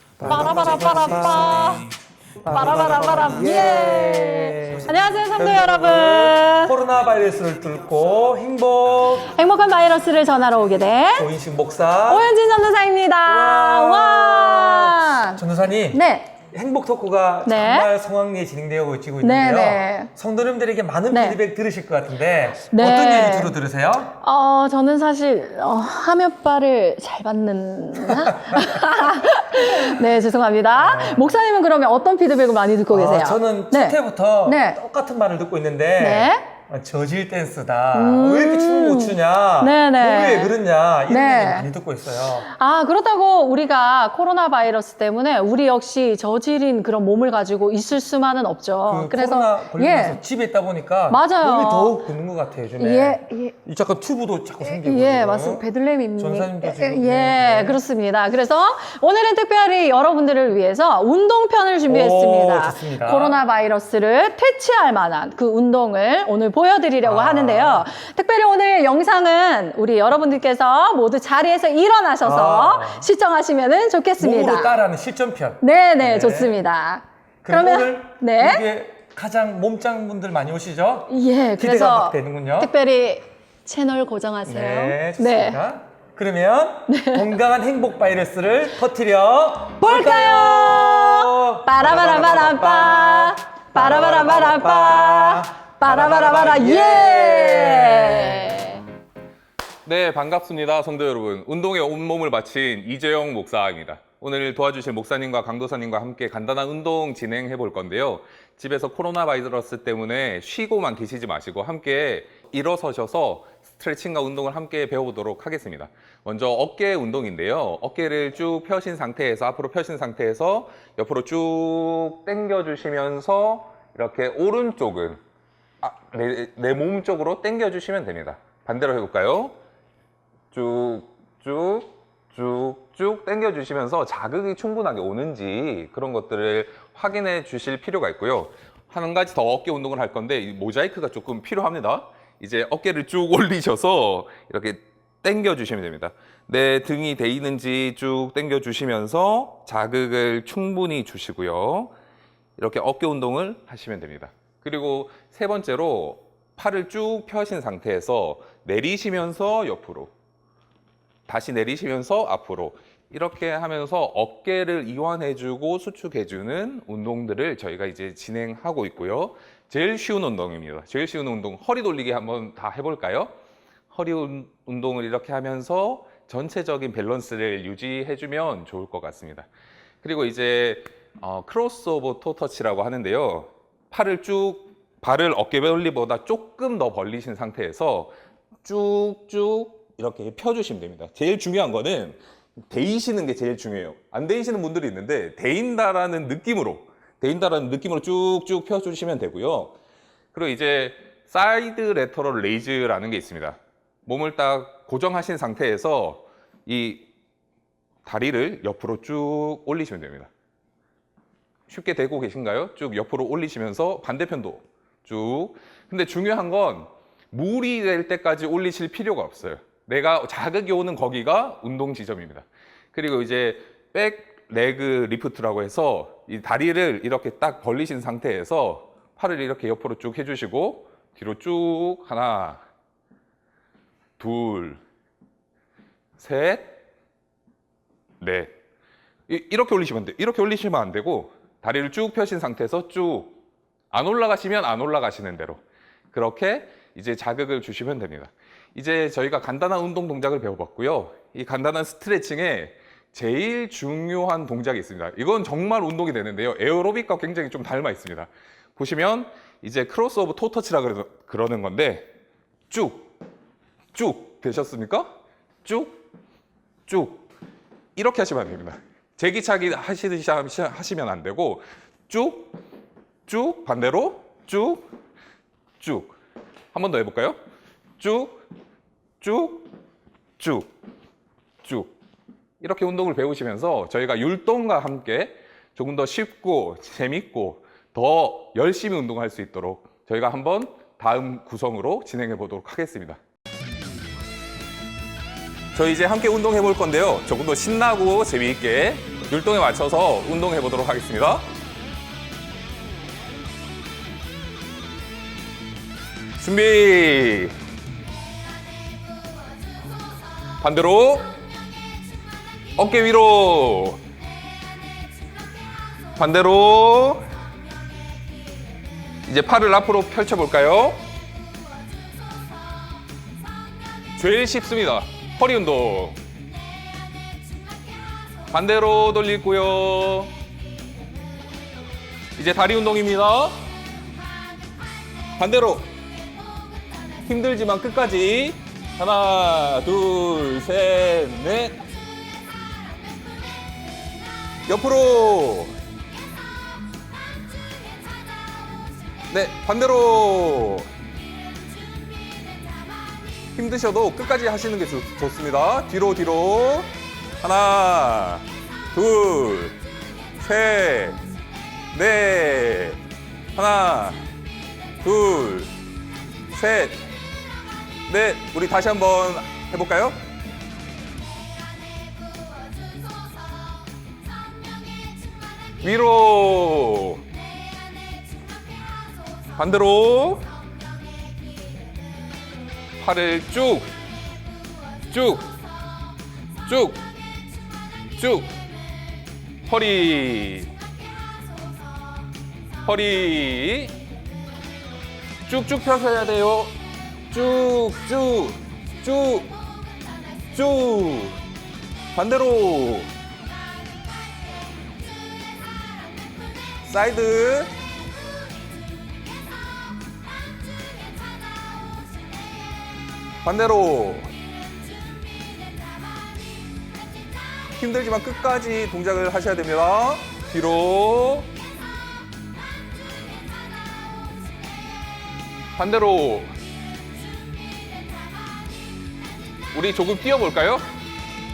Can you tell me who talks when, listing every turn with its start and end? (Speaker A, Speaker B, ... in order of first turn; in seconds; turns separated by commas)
Speaker A: 0.2-1.9, Speaker B: 0.2-0.7, Speaker B: 2.4-9.3, Speaker A: 2.5-6.8, Speaker A: 9.2-11.3, Speaker B: 11.2-12.3, Speaker A: 12.1-16.3, Speaker B: 13.2-24.1, Speaker A: 17.4-17.9, Speaker A: 19.2-20.1, Speaker A: 21.1-21.4, Speaker A: 22.6-23.5, Speaker A: 24.2-34.8, Speaker B: 28.0-28.8, Speaker B: 30.8-31.3, Speaker B: 32.9-42.5, Speaker A: 36.0-36.5, Speaker A: 37.9-40.5, Speaker A: 41.1-41.7, Speaker A: 42.4-50.2, Speaker B: 48.9-55.6, Speaker A: 51.1-52.0, Speaker A: 52.8-53.5, Speaker A: 54.6-74.8, Speaker B: 56.2-57.8, Speaker B: 61.9-63.4, Speaker B: 67.0-67.9, Speaker B: 72.2-73.1, Speaker B: 74.2-76.5, Speaker A: 75.6-78.6, Speaker B: 77.4-82.7, Speaker A: 81.1-85.6, Speaker B: 84.5-98.6, Speaker A: 86.9-87.2, Speaker A: 89.8-98.8, Speaker C: 99.8-125.2, Speaker C: 125.8-129.6, Speaker C: 130.5-151.9, Speaker C: 152.6-160.1, Speaker C: 161.3-173.3, Speaker C: 173.9-179.5, Speaker C: 180.0-188.1, Speaker C: 188.6-199.7, Speaker C: 200.3-207.1, Speaker C: 208.0-210.3, Speaker C: 211.7-232.6, Speaker C: 234.2-234.8, Speaker C: 236.2-236.7, Speaker C: 238.2-238.5, Speaker C: 239.3-243.3, Speaker C: 243.9-245.6, Speaker C: 246.1-262.1, Speaker C: 262.7-263.1, Speaker C: 263.9-265.1, Speaker C: 265.6-266.0, Speaker C: 266.9-267.2, Speaker C: 267.9-272.5, Speaker C: 273.3-274.8, Speaker C: 275.8-276.1, Speaker C: 276.7-277.4, Speaker C: 278.0-278.4, Speaker C: 279.2-279.7, Speaker C: 280.4-280.7, Speaker C: 281.6-281.9, Speaker C: 282.6-293.2, Speaker C: 295.7-301.4, Speaker C: 306.4-307.5, Speaker C: 310.6-311.3, Speaker C: 312.8-314.0, Speaker C: 316.2-317.2, Speaker C: 319.2-321.0, Speaker C: 324.2-326.2, Speaker C: 328.5-330.3, Speaker C: 332.4-333.6, Speaker C: 335.4-335.9, Speaker C: 337.2-341.8, Speaker C: 344.7-345.7, Speaker C: 349.3-350.9, Speaker C: 353.6-356.9, Speaker C: 357.4-359.7, Speaker C: 360.4-361.2, Speaker C: 361.9-363.0, Speaker C: 363.6-364.2, Speaker C: 365.0-365.7, Speaker C: 366.5-367.0, Speaker C: 368.1-370.2, Speaker C: 375.8-377.2, Speaker C: 379.6-380.4, Speaker C: 383.0-383.9, Speaker C: 385.1-385.5, Speaker C: 386.6-387.0, Speaker C: 388.2-388.5, Speaker C: 389.6-390.7, Speaker C: 392.8-393.9, Speaker C: 395.4-396.7, Speaker C: 397.3-399.5, Speaker C: 400.5-401.4, Speaker C: 402.1-403.1, Speaker C: 406.8-407.7, Speaker C: 413.4-414.3, Speaker C: 417.8-421.5, Speaker C: 425.8-426.5, Speaker C: 429.7-430.8